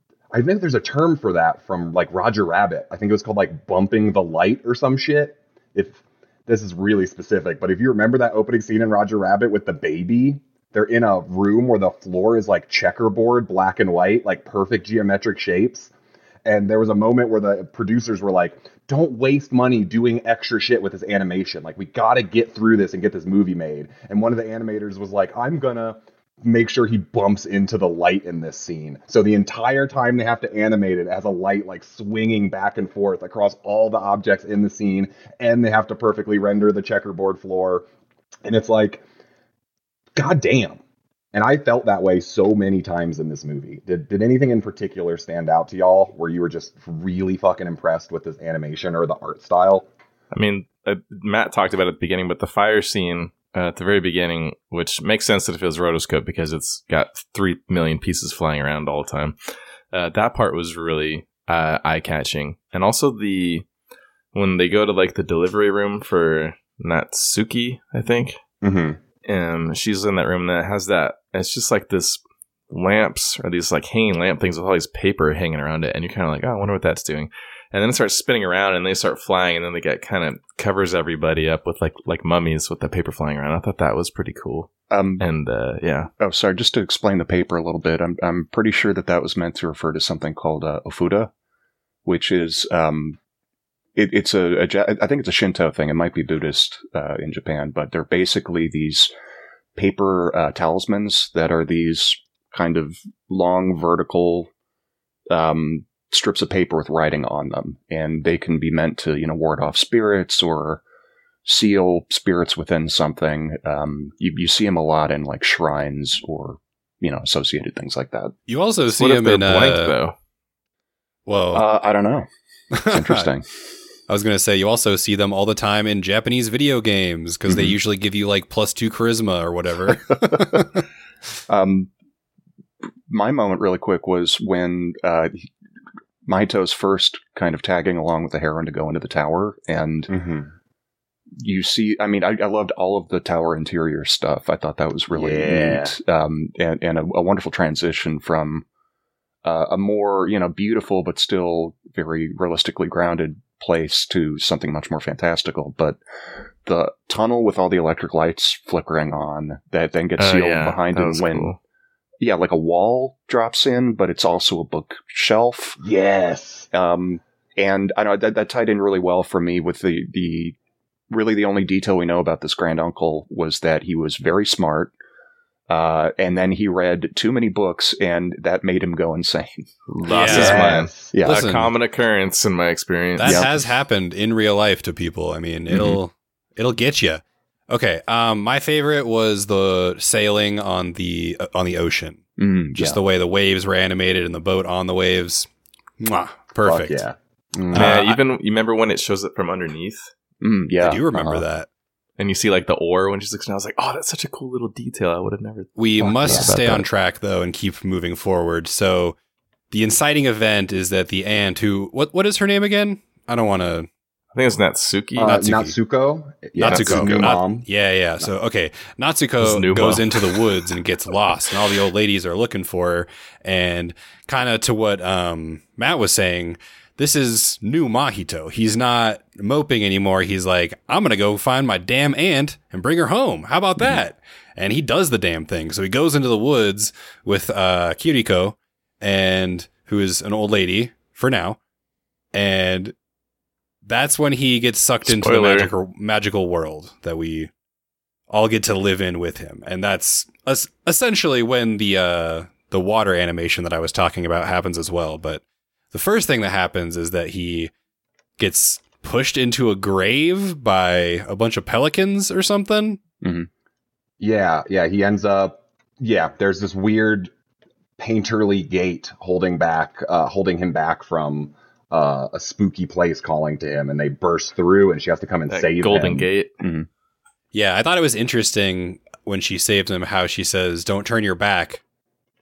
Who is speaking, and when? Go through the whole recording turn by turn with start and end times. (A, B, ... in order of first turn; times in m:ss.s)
0:00.3-0:15.9 A
0:16.4-0:37.9 A
0:38.4-0:39.0 A
0:40.2-0:40.8 A
0:41.3-0:49.9 A
0:50.3-0:59.4 B
0:59.9-1:03.7 B
1:04.3-1:08.4 B
1:08.6-1:09.0 A
1:09.2-1:26.1 B
1:24.9-1:25.2 C
1:26.2-1:31.3 C
1:32.0-1:33.2 C
1:34.0-1:39.1 C
1:39.8-1:44.5 C
1:45.3-1:50.8 C
1:51.4-1:58.3 C
1:58.5-1:59.9 D
1:58.9-2:00.1 B
2:01.2-2:01.6 D
2:01.5-2:02.3 C
2:02.7-2:03.3 D
2:02.9-2:03.4 C
2:04.1-2:10.8 D
2:07.5-2:07.7 C
2:10.1-2:10.6 C
2:11.5-2:11.9 C
2:13.1-2:15.5 C
2:16.2-2:20.1 C
2:20.1-2:20.5 A
2:21.4-2:28.6 C
2:25.1-2:25.9 A
2:29.4-2:36.0 C
2:36.6-2:41.6 C
2:40.2-2:41.6 B
2:42.2-2:45.8 C
2:45.8-2:46.7 A
2:46.7-2:50.6 C
2:51.1-2:54.9 C
2:55.7-3:01.4 C
3:00.0-3:03.5 B
3:00.1-3:00.7 D
3:00.3-3:01.1 A
3:01.2-3:01.7 D
3:03.2-3:12.2 D
3:03.2-3:03.6 C
3:05.7-3:06.0 C
3:12.4-3:13.0 C
3:12.7-3:15.5 D
3:16.0-3:17.0 D
3:16.6-3:17.9 A
3:17.7-3:18.2 D
3:17.7-3:20.1 B
3:20.4-3:21.4 C
3:20.8-3:21.7 D
3:22.2-3:26.5 B
3:25.8-3:29.2 D
3:26.3-3:26.8 C
3:29.7-3:33.9 D
3:34.3-3:35.4 B
3:35.2-3:37.7 A
3:35.2-3:35.7 D
3:36.6-3:37.4 C
3:36.6-4:01.6 D
3:39.4-3:40.1 B
4:02.3-4:02.9 D
4:03.8-4:07.5 D
4:05.1-4:05.7 B
4:08.3-4:15.4 D
4:15.9-4:17.7 D
4:18.4-4:23.0 D
4:23.2-4:23.5 C
4:24.2-4:27.3 A
4:28.0-4:36.3 A
4:35.5-4:36.5 B
4:36.6-4:36.9 C
4:37.5-4:41.8 D